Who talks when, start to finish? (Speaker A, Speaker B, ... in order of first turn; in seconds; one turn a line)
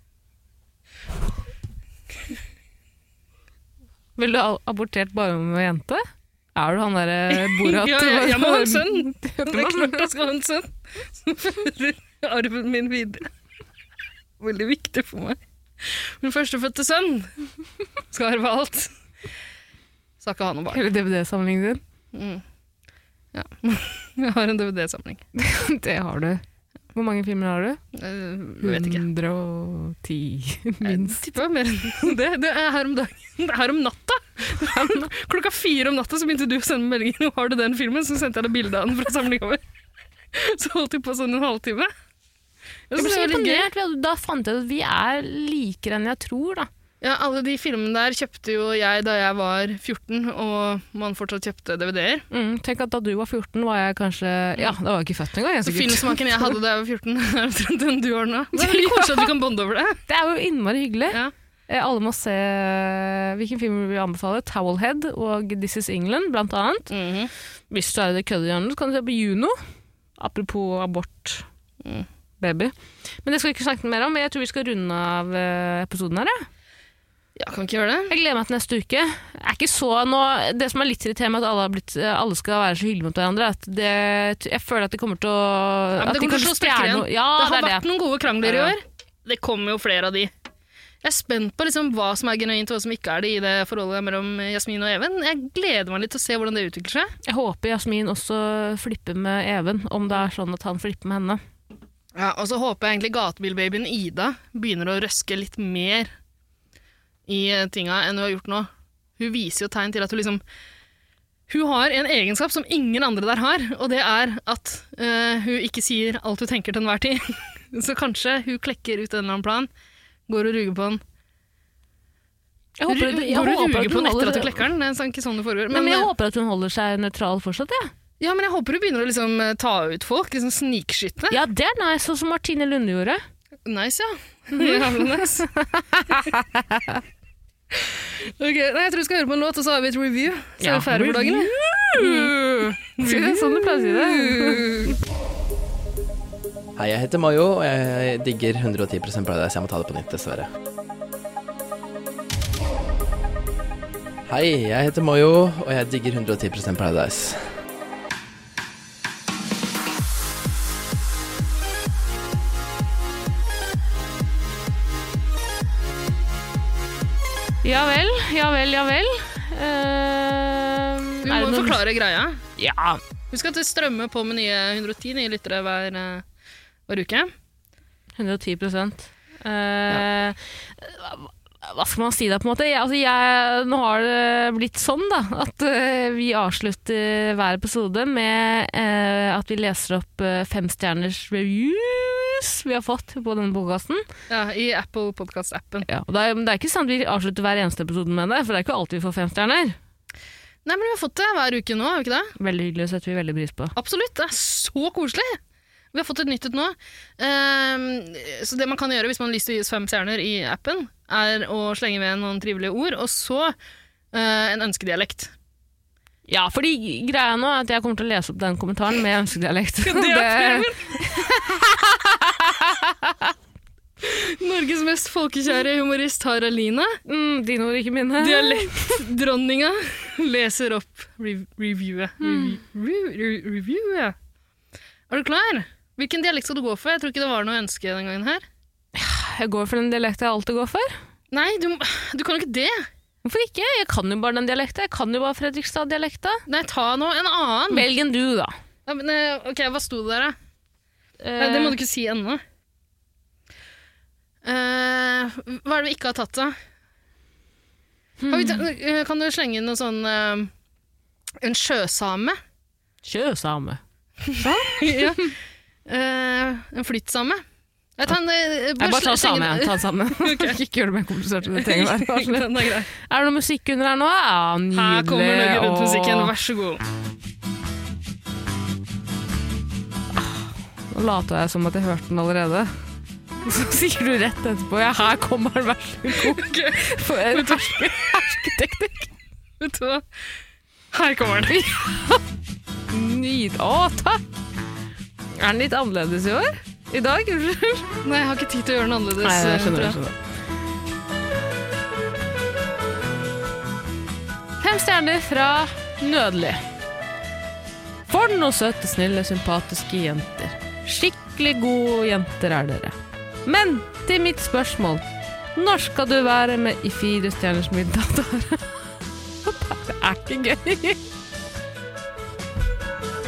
Speaker A: 4.2-6.0
Speaker A: 6.5-10.0
Speaker B: 7.3-13.3
Speaker B: 14.4-17.3
Speaker B: 18.1-18.9
Speaker B: 20.2-20.8
Speaker A: 20.7-21.8
Speaker B: 22.1-22.4
Speaker B: 23.3-25.2
Speaker A: 25.4-26.4
Speaker A: 26.9-27.8
Speaker B: 27.9-29.0
Speaker A: 28.6-31.2
Speaker B: 30.8-39.6
Speaker A: 34.6-35.1
Speaker B: 40.3-41.9
Speaker B: 42.9-43.7
Speaker A: 43.0-46.7
Speaker B: 47.0-52.2
Speaker A: 52.3-56.5
Speaker B: 55.6-60.0
Speaker A: 58.6-59.3
Speaker A: 60.1-66.9
Speaker B: 66.9-67.3
Speaker A: 67.7-69.5
Speaker A: 70.2-71.4
Speaker A: 72.4-76.5
Speaker B: 77.3-78.1
Speaker A: 78.1-87.8
Speaker B: 86.0-90.3
Speaker A: 88.4-88.7
Speaker B: 91.0-97.1
Speaker A: 97.2-101.4
Speaker B: 102.2-106.1
Speaker B: 107.3-110.4
Speaker B: 111.5-119.7
Speaker B: 120.3-121.0
Speaker A: 122.8-124.6
Speaker B: 122.9-126.1
Speaker A: 125.7-127.9
Speaker B: 128.2-131.4
Speaker A: 131.3-133.2
Speaker B: 133.7-135.5
Speaker A: 134.5-137.0
Speaker B: 137.7-144.9
Speaker A: 140.6-144.9
Speaker C: 146.8-150.5
Speaker C: 154.3-157.5
Speaker A: 167.6-171.8
Speaker B: 171.2-172.4
Speaker A: 172.6-173.0
Speaker B: 173.3-176.2
Speaker B: 176.9-177.3
Speaker A: 178.2-194.0
Speaker B: 194.3-195.9
Speaker A: 195.9-199.8
Speaker B: 200.7-202.3
Speaker A: 202.4-203.7
Speaker B: 203.7-205.4
Speaker B: 205.9-213.5
Speaker B: 214.1-215.3
Speaker A: 216.3-223.3
Speaker B: 219.8-221.1
Speaker B: 224.0-227.0
Speaker A: 227.1-229.0
Speaker B: 228.2-234.1
Speaker A: 232.2-232.6
Speaker B: 235.1-238.4
Speaker A: 238.9-240.9
Speaker B: 241.3-242.9
Speaker A: 243.2-246.4
Speaker B: 246.5-247.9
Speaker A: 247.7-248.5
Speaker B: 248.9-250.3
Speaker A: 251.2-251.8
Speaker B: 251.4-252.4
Speaker B: 254.4-256.6
Speaker A: 258.2-258.6
Speaker B: 258.3-260.5
Speaker B: 261.4-262.4
Speaker A: 263.0-263.8
Speaker B: 264.2-265.3
Speaker A: 264.4-265.3
Speaker B: 265.9-267.4
Speaker B: 268.0-270.6
Speaker A: 268.8-276.3
Speaker B: 271.5-272.9
Speaker B: 274.7-276.8
Speaker A: 280.2-282.7
Speaker A: 283.4-289.1
Speaker B: 286.1-288.0
Speaker B: 289.6-290.1
Speaker B: 290.9-291.6
Speaker A: 291.5-292.2
Speaker A: 292.9-294.2
Speaker A: 295.4-297.9
Speaker B: 298.0-300.0
Speaker A: 299.2-300.1
Speaker A: 304.6-306.6
Speaker A: 308.1-315.0
Speaker A: 315.5-318.6
Speaker A: 319.4-321.0